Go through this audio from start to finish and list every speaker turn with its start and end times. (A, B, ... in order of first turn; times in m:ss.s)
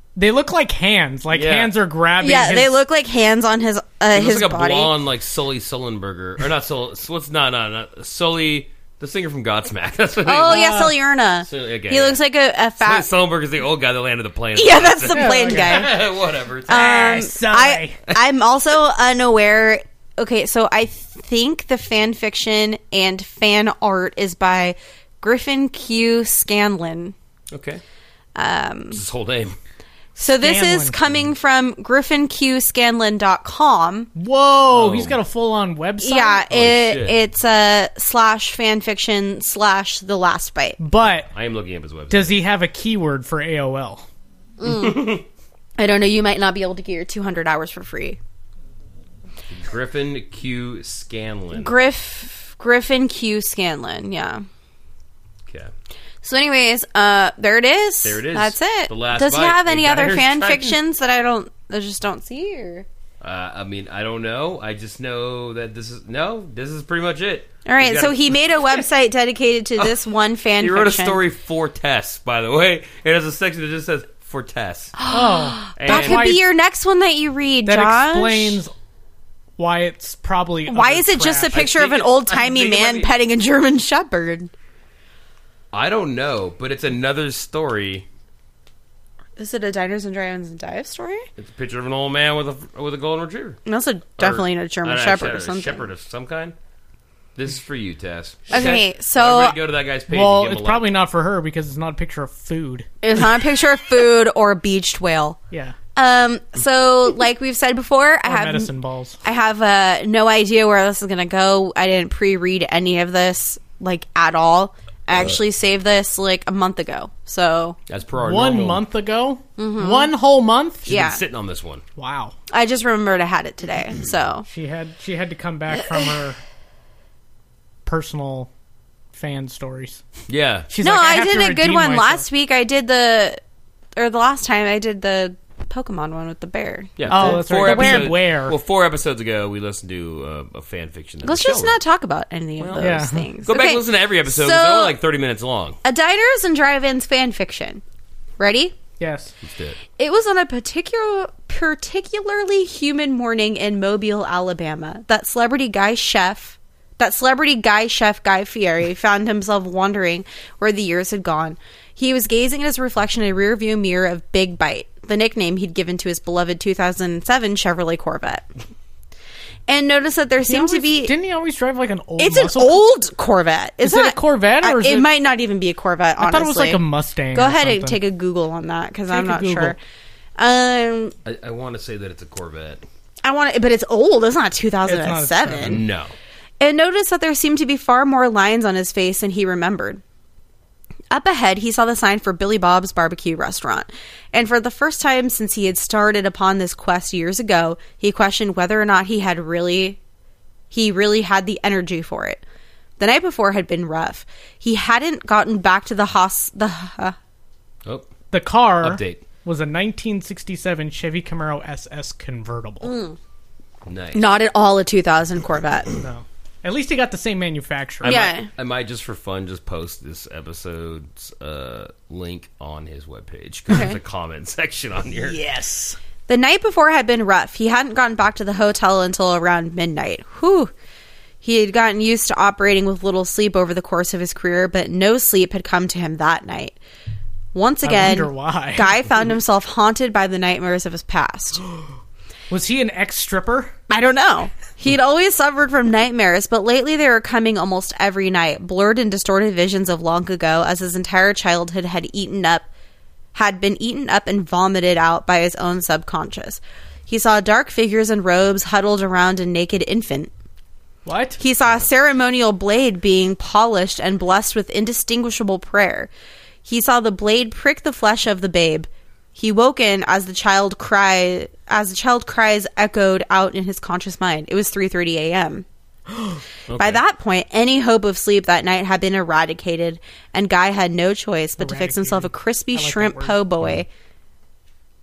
0:00.2-0:02.7 A
0:01.3-0:01.7 B
0:02.2-0:04.9 C
0:04.1-0:10.7 B
0:10.2-0:13.1 C
0:10.5-0:10.9 A
0:11.4-0:12.2 B
0:12.8-0:16.8 B
0:14.6-0:16.0 C
0:15.1-0:15.9 A
0:16.7-0:18.0 A
0:16.7-0:27.1 C
0:27.5-0:27.8 B
0:28.3-0:29.0 C
0:28.9-0:29.6 B
0:30.2-0:34.1 C
0:30.4-0:31.0 A
0:34.2-0:36.5 A
0:34.7-0:35.2 B
0:36.0-0:40.8 C
0:36.5-0:37.2 B
0:40.8-0:41.3 A
0:41.3-0:42.4 B
0:42.1-0:44.1 A
0:44.6-0:45.2 C
0:44.6-0:45.2 B
0:45.8-0:48.2 C
0:49.5-0:51.7 B
0:51.5-0:54.4 C
0:55.4-0:55.7 B
0:56.2-1:02.8 C
0:58.0-1:00.8 B
1:03.2-1:08.8 B
1:07.6-1:11.2 C
1:10.6-1:14.9 B
1:15.0-1:18.6 C
1:15.1-1:16.4 A
1:15.8-1:16.3 B
1:17.7-1:18.7 A
1:19.6-1:21.6 A
1:20.7-1:24.5 C
1:21.5-1:23.1 B
1:25.7-1:28.0 B
1:29.4-1:31.3 C
1:31.4-1:33.6 B
1:33.6-1:35.9 C
1:34.2-1:36.5 B
1:37.4-1:40.9 B
1:38.5-1:39.6 C
1:38.5-1:38.8 A
1:40.1-1:42.9 A
1:43.0-1:45.4 C
1:45.5-1:45.8 A
1:45.9-1:48.7 C
1:48.2-1:49.2 A
1:49.2-1:57.8 C
1:57.9-1:58.8 B
1:58.2-2:00.9 A
1:59.6-2:00.1 C
2:00.8-2:01.2 C
2:00.9-2:01.8 B
2:02.0-2:02.3 A
2:02.5-2:04.4 C
2:04.4-2:06.4 A
2:07.8-2:08.5 A
2:09.1-2:10.0 A
2:10.3-2:10.7 B
2:10.7-2:12.2 A
2:10.8-2:13.4 C
2:14.0-2:18.1 C
2:17.0-2:21.8 B
2:17.1-2:18.6 A
2:21.2-2:25.0 C
2:22.6-2:25.8 B
2:22.8-2:23.3 A
2:25.8-2:27.8 C
2:28.4-2:28.7 C
2:29.0-2:29.3 A
2:29.4-2:29.8 B
2:30.0-2:48.4 C
2:49.7-2:51.1 C
2:50.4-2:52.8 A
2:52.2-2:56.8 C
2:53.8-2:55.1 A
2:56.2-2:58.0 A
2:57.3-2:59.8 C
2:59.1-2:59.7 A
3:00.4-3:01.1 C
3:01.2-3:02.8 B
3:03.2-3:05.8 C
3:04.8-3:05.8 A
3:05.6-3:06.1 B
3:06.6-3:10.0 C
3:11.1-3:20.0 C
3:20.7-3:22.4 C
3:23.0-3:27.2 C
3:27.8-3:28.1 B
3:28.3-3:32.9 A
3:28.8-3:29.2 B
3:32.8-3:33.2 C
3:33.8-3:34.2 B
3:34.1-3:35.9 C
3:36.0-3:38.2 A
3:38.0-3:45.4 B
3:38.0-3:38.5 C
3:43.7-3:44.0 C
3:45.2-3:46.0 A
3:46.3-3:50.7 C
3:51.4-3:56.8 C
3:57.5-4:01.6 C
3:57.8-3:58.9 A
4:02.5-4:03.7 A
4:03.9-4:12.7 C
4:13.3-4:20.3 C
4:21.0-4:21.4 A
4:21.4-4:26.1 C
4:26.6-4:35.6 C
4:36.7-4:37.0 B
4:36.8-4:43.9 C
4:41.6-4:43.4 A